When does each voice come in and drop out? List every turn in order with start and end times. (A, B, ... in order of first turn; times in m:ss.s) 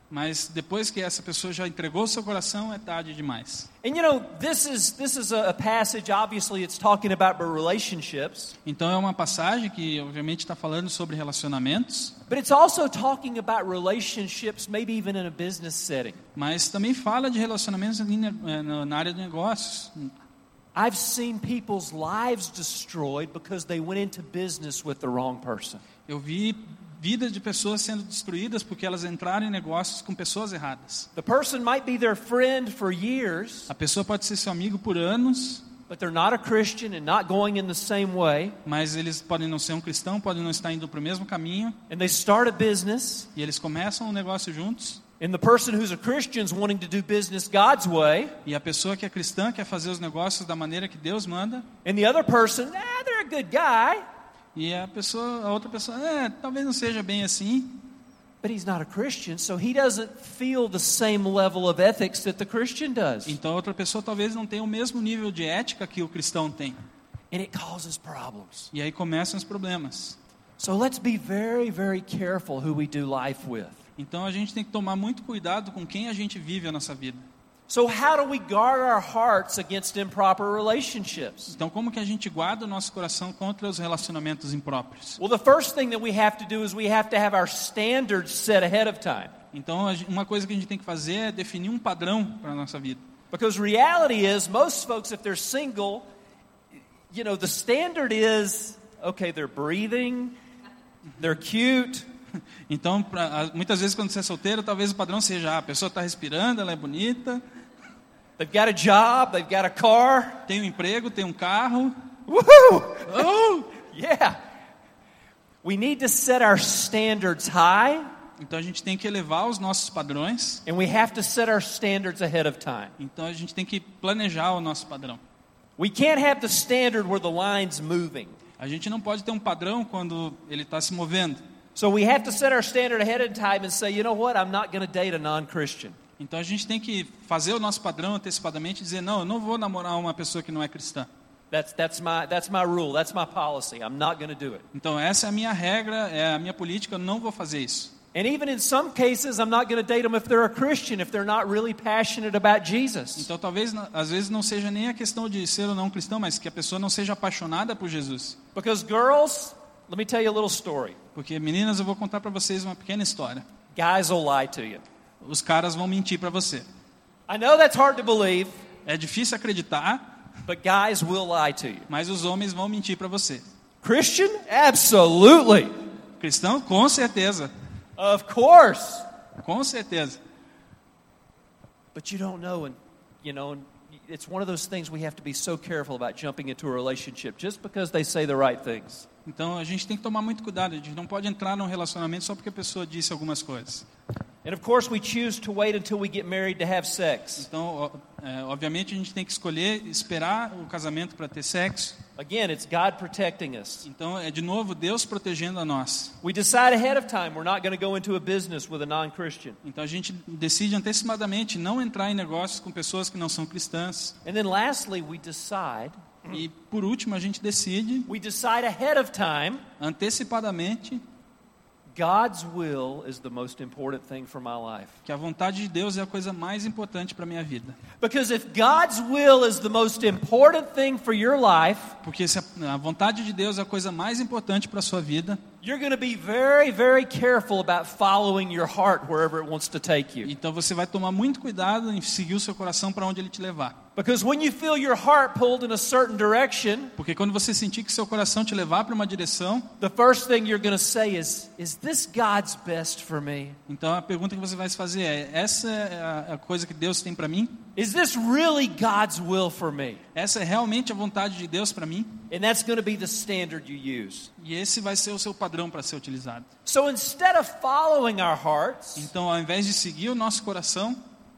0:00.1-0:03.7 A
0:03.8-0:08.6 B
0:08.6-0:12.2 A
0:12.3-0:16.2 B
0:16.4-0:20.1 A
0:20.8-0:25.8 B
0:26.1-0:31.1 A
0:31.2-0:33.7 B
0:33.7-0:35.7 A
0:35.9-0:38.6 B
0:38.6-0:41.8 A
0:41.9-0:43.3 B
0:43.4-0:45.0 A
0:45.2-0:48.4 B
0:48.4-0:51.7 A
0:51.8-0:54.0 B
0:54.6-0:57.8 A
0:58.4-1:03.4 B
1:03.3-1:06.8 A
1:07.3-1:08.7 B
1:08.7-1:10.2 A
1:10.6-1:13.8 B
1:14.0-1:17.2 A
1:17.7-1:21.5 B
1:21.5-1:25.2 A
1:25.2-1:29.3 B
1:29.5-1:33.0 A
1:33.3-1:36.1 B
1:37.1-1:40.4 B
1:41.2-1:42.1 B
1:42.7-1:47.4 A
1:48.4-1:50.4 B
1:50.5-1:51.9 A
1:52.3-1:54.4 B
1:55.6-1:58.1 B
1:58.4-2:00.6 A
2:00.7-2:02.9 B
2:03.0-2:05.2 A
2:05.8-2:08.4 B
2:08.6-2:11.4 A
2:11.8-2:16.0 B
2:16.2-2:21.1 A
2:21.5-2:24.6 B
2:24.7-2:27.9 A
2:28.1-2:33.3 B
2:33.2-2:38.4 A
2:38.6-2:41.0 B
2:41.2-2:43.4 A
2:43.8-2:44.8 B
2:45.2-2:46.6 A
2:47.3-2:48.5 B
2:48.9-2:50.0 A
2:50.5-2:51.9 B
2:51.9-2:53.4 A
2:53.8-2:55.7 B
2:56.2-2:57.5 A
2:58.0-2:59.1 B
2:59.4-3:00.2 A
3:02.0-3:09.1 B
3:09.3-3:13.9 A
3:14.4-3:17.5 B
3:17.4-3:22.0 A
3:22.2-3:23.9 B
3:23.8-3:26.2 A
3:26.2-3:29.6 B
3:29.6-3:34.2 A
3:34.2-3:36.3 B
3:36.3-3:38.1 A
3:38.1-3:39.6 B
3:39.8-3:41.0 A
3:42.0-3:45.0 B
3:45.0-3:47.8 A
3:48.0-3:52.0 B
3:52.0-3:55.4 A
3:55.6-4:00.3 B
4:00.2-4:03.8 A
4:04.0-4:06.9 B
4:07.0-4:09.7 A
4:09.8-4:13.6 B
4:13.7-4:17.6 A
4:17.8-4:20.0 B
4:20.1-4:22.2 A
4:22.3-4:24.3 B
4:24.4-4:26.5 A
4:26.7-4:29.1 B
4:29.0-4:31.0 A